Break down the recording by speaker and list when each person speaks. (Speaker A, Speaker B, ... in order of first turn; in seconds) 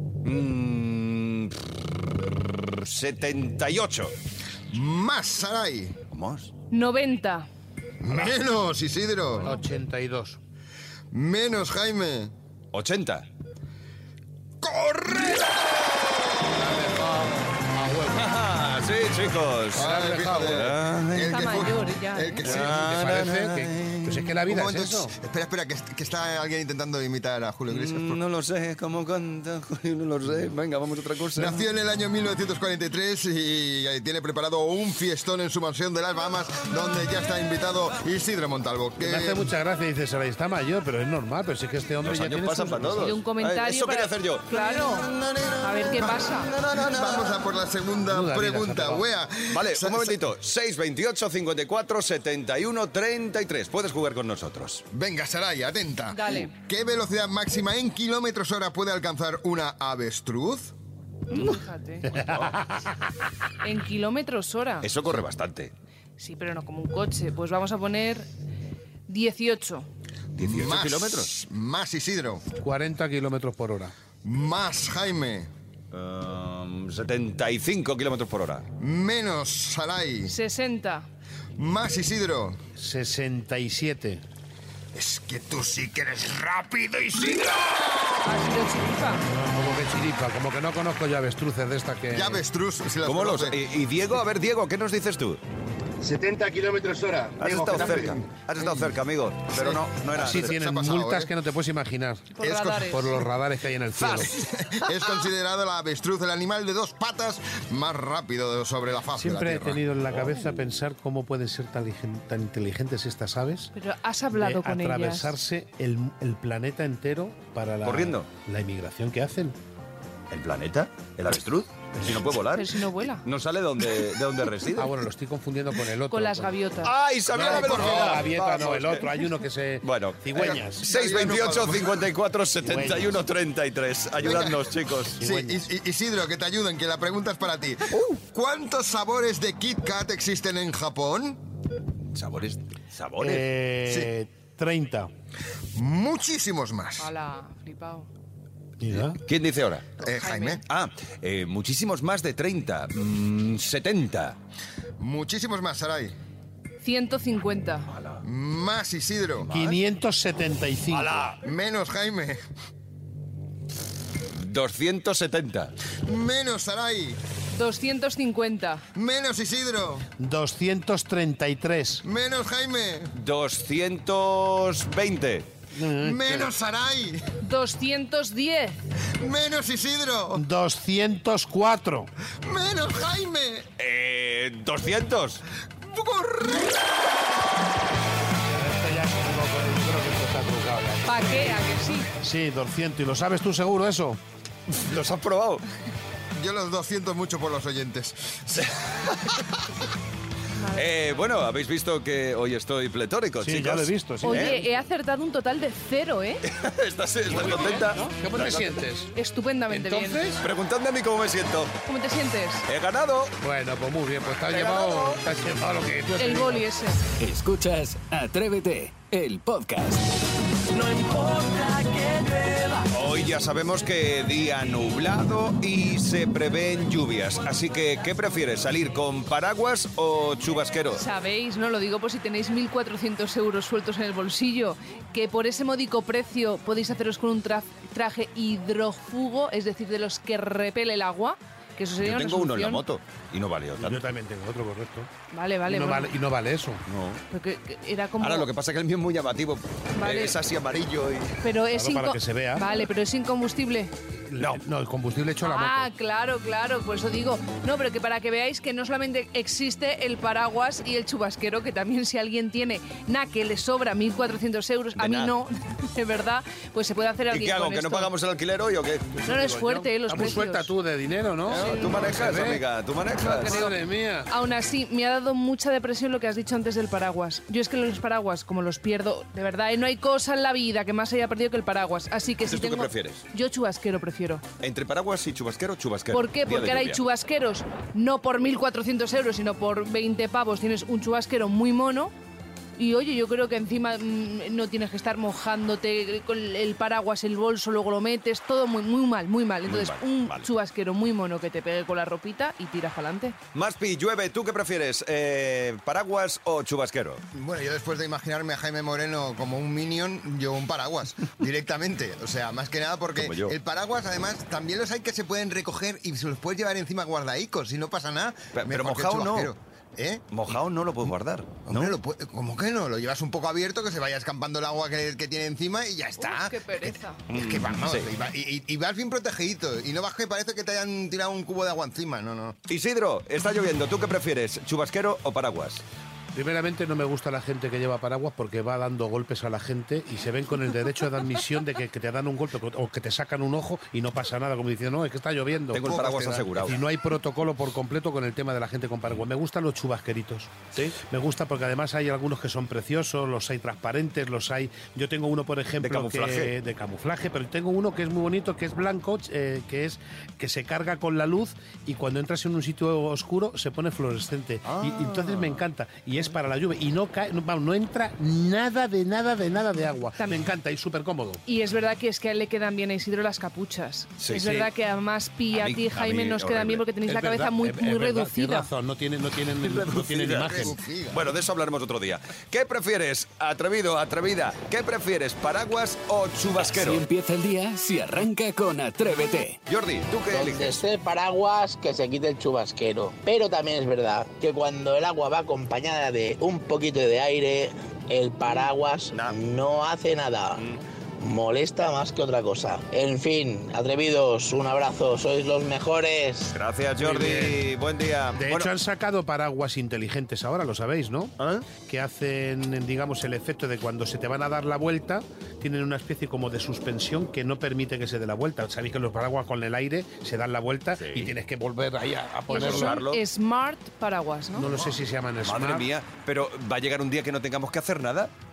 Speaker A: 0.2-1.7, 2.7-4.2, 6.1-6.5, 12.7-13.3, 18.1-21.5, 22.4-24.4, 27.7-31.6, 42.0-44.5, 45.0-47.4, 49.5-54.8, 62.2-62.5, 64.8-65.7, 70.4-71.3, 75.9-78.7, 93.0-95.4, 97.4-100.6, 104.0-104.9, 110.1-110.7, 117.8-118.3, 120.3-122.7, 123.2-125.0, 126.8-129.2, 129.8-135.2, 142.1-143.5, 149.0-149.9, 150.7-154.4, 157.9-158.2, 159.4-159.8, 160.9-161.4, 164.3-165.7, 173.2-175.5, 183.8-185.4, 194.7-195.7, 200.7-204.6, 206.4-208.9, 210.4-211.7, 212.7-213.3, 214.3-215.2, 222.9-231.0, 242.0-244.0, 246.9-247.2, 248.2-251.4, 254.4-254.6, 265.0-265.3, 267.3-269.2, 271.5-273.6, 282.5-283.2, 284.6-287.0, 299.7-300.5, 303.5-307.2, 313.2-313.5, 318.5-319.5, 320.3-322.0, 327.3-328.1, 332.7-335.8, 345.7-346.9, 355.8-356.5, 364.7-365.6, 374.2-374.7, 375.5-376.8, 379.6-387.0, 389.7-390.8, 399.1-399.4, 400.6-400.8, 406.5-408.7, 421.0-421.3, 422.5-423.2, 425.4-428.3
Speaker B: 4.7-6.0, 8.0-9.5, 11.1-12.3, 14.6-16.2, 19.7-22.8, 24.5-28.2, 31.4-39.5, 46.6-50.2, 54.9-60.7, 70.4-72.5, 74.2-75.5, 78.8-80.3, 81.6-82.6, 84.9-88.3, 92.1-93.6, 98.6-98.9, 99.5-101.3, 102.4-103.0, 104.3-109.8, 127.3-128.4, 130.3-132.1, 134.2-141.4, 143.8-144.1, 145.7-147.1, 150.0-150.6, 155.0-156.2, 158.2-159.5, 161.4-162.4, 166.1-167.2, 168.9-170.1, 172.0-173.1, 176.0-177.2, 179.2-180.4, 182.4-183.7, 185.8-186.9, 196.4-198.7, 307.3-320.3, 321.7-332.6, 345.8-346.5, 380.5-381.3
Speaker C: 6.7-7.5, 21.2-22.5, 42.9-45.1, 45.6-46.5, 56.1-56.5, 61.3-62.1, 63.6-64.9, 66.2-68.3, 69.1-69.9, 80.3-81.1, 88.2-89.3, 102.3-103.2, 113.7-115.3, 122.5-123.2, 126.1-126.9, 147.0-148.1, 150.0-150.6, 156.8-157.9, 167.5-168.8, 177.4-178.8, 191.1-192.1, 204.2-206.4, 209.2-210.3, 211.9-212.7, 216.2-217.0, 230.9-242.8, 245.3-246.2, 247.3-248.5, 250.0-250.4, 251.4-253.9, 255.4-268.1, 269.2-270.7, 271.6-271.9, 273.4-284.4, 286.1-292.1, 292.8-303.4, 326.2-327.2, 371.5-378.7, 422.5-424.7
Speaker D: 9.4-10.4, 16.6-18.2, 19.8-20.7, 22.4-25.1, 39.0-43.1, 48.1-49.1, 62.1-62.5, 72.6-73.9, 82.8-84.2, 89.3-92.4, 100.2-104.3, 109.2-113.7, 114.3-119.6, 124.8-126.5, 127.3-130.9, 132.6-133.2, 135.2-135.6, 143.2-145.1, 148.8-149.2, 159.5-161.2, 170.2-172.0, 175.8-176.5, 180.3-182.1, 188.5-191.6, 192.2-194.2, 203.4-204.7, 207.3-209.1, 209.7-210.4, 213.4-216.7, 243.8-245.1, 245.7-246.8, 251.7-252.7, 254.3-255.9, 269.2-272.6, 273.2-274.3, 336.3-345.9, 346.6-371.4, 377.1-380.8, 407.0-407.6, 408.4-411.3, 411.9-423.0, 424.6-425.9
Speaker E: 96.0-98.2
Speaker F: 217.2-220.2, 386.6-389.6
Speaker G: 390.3-400.7, 401.2-406.6